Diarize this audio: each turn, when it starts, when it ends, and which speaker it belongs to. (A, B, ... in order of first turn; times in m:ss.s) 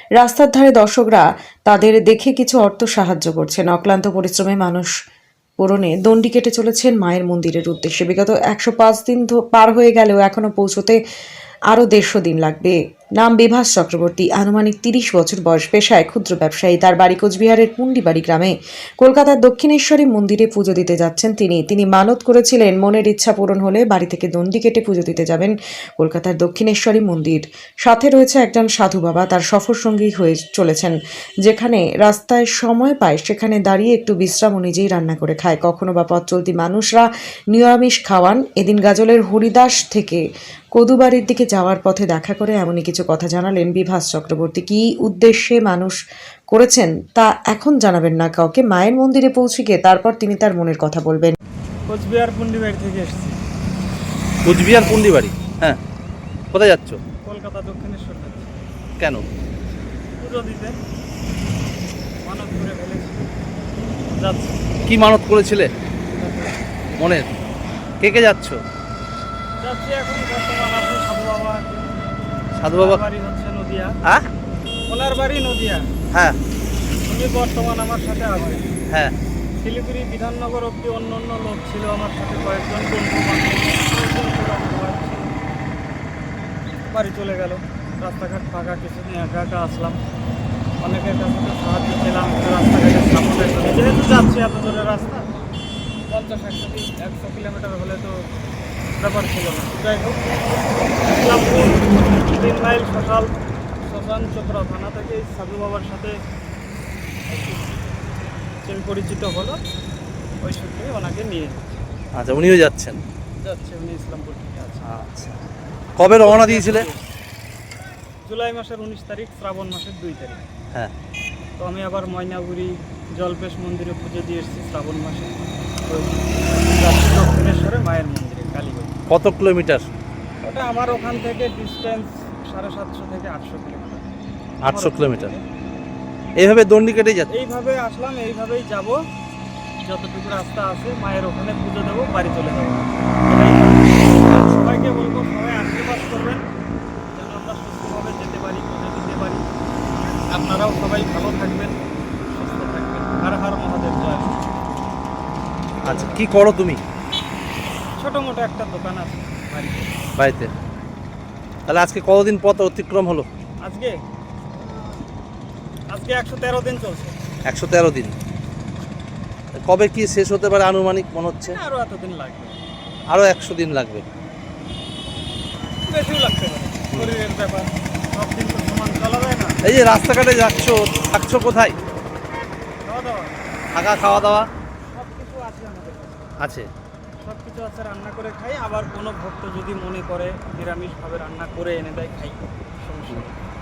0:00.2-0:04.9 A
0:05.6-0:11.0 A
0:11.7-0:40.2 A
0:40.8-0:46.0 A
0:46.5-0:51.4 A
0:51.9-0:53.4 B
0:54.4-0:55.8 C
0:54.7-0:55.0 B
0:56.5-0:57.0 C
0:57.3-0:58.6 B
0:59.0-0:59.3 C
1:00.2-1:00.8 B
1:02.2-1:03.2 B
1:04.2-1:04.6 B
1:04.9-1:05.7 C
1:06.2-1:06.6 B
1:07.0-1:07.3 C
1:08.0-1:08.6 C
1:09.6-1:11.9 B
1:12.6-1:13.0 C
1:12.8-1:13.9 B
1:14.9-1:15.9 B
1:17.1-1:18.7 B
1:19.6-1:25.4 B
1:26.9-1:30.0 B
1:30.8-1:35.3 B
1:36.1-1:38.2 B
1:38.9-1:40.2 B
1:41.0-1:46.2 B
1:47.3-1:47.9 B
1:48.6-1:49.6 B
1:50.4-1:51.8 B
1:52.2-1:53.0 C
1:53.4-1:54.9 B
1:54.8-1:55.4 C
1:56.0-1:56.9 C
1:56.0-1:57.1 B
1:58.3-2:00.4 B
2:01.6-2:09.0 B
2:09.1-2:09.8 C
2:10.4-2:14.1 B
2:14.6-2:15.3 C
2:14.6-2:15.4 B
2:16.4-2:17.3 C
2:17.3-2:19.0 B
2:19.8-2:26.4 B
2:27.1-2:29.4 B
2:30.3-2:34.4 B
2:35.8-2:36.2 B
2:35.8-2:36.8 C
2:38.0-2:40.0 B
2:40.2-2:40.5 C
2:41.7-2:43.3 C
2:43.6-2:44.0 B
2:45.9-2:47.2 B
2:47.5-2:48.2 C
2:49.7-2:51.6 C
2:51.4-2:52.6 B
2:53.1-2:54.0 C
2:55.9-2:59.6 B
2:59.6-3:01.8 C
3:02.8-3:03.3 B
3:03.7-3:04.5 C
3:04.9-3:06.3 B
3:06.4-3:06.7 C
3:07.2-3:13.4 B